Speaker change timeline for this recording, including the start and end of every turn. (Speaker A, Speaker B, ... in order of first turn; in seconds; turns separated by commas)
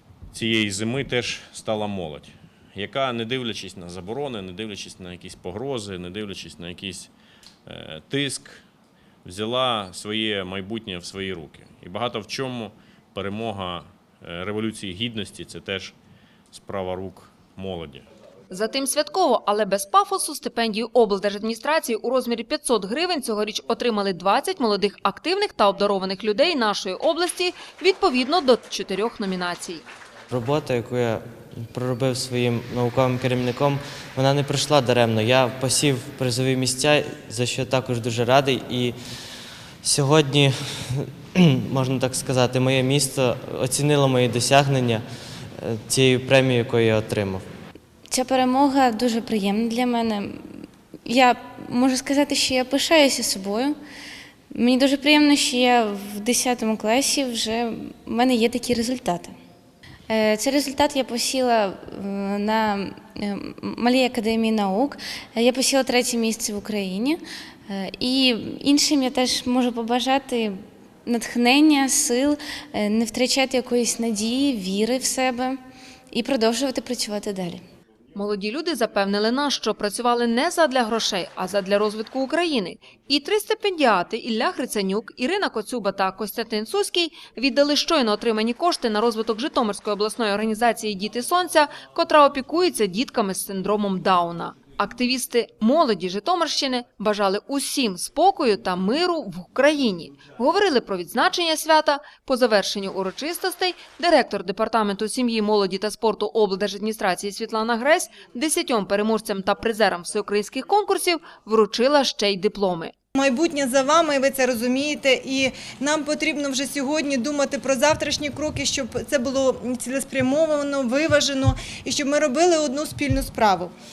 Speaker A: 0.3-7.1, Speaker A: 7.7-8.7, Speaker A: 9.2-15.9, Speaker A: 16.5-18.1, Speaker B: 18.5-29.8, Speaker C: 30.3-39.0, Speaker C: 39.8-45.0, Speaker C: 45.6-47.5, Speaker D: 48.1-53.8, Speaker D: 54.5-59.4, Speaker D: 60.1-75.6, Speaker D: 76.1-77.6, Speaker B: 78.1-112.9, Speaker E: 113.2-123.8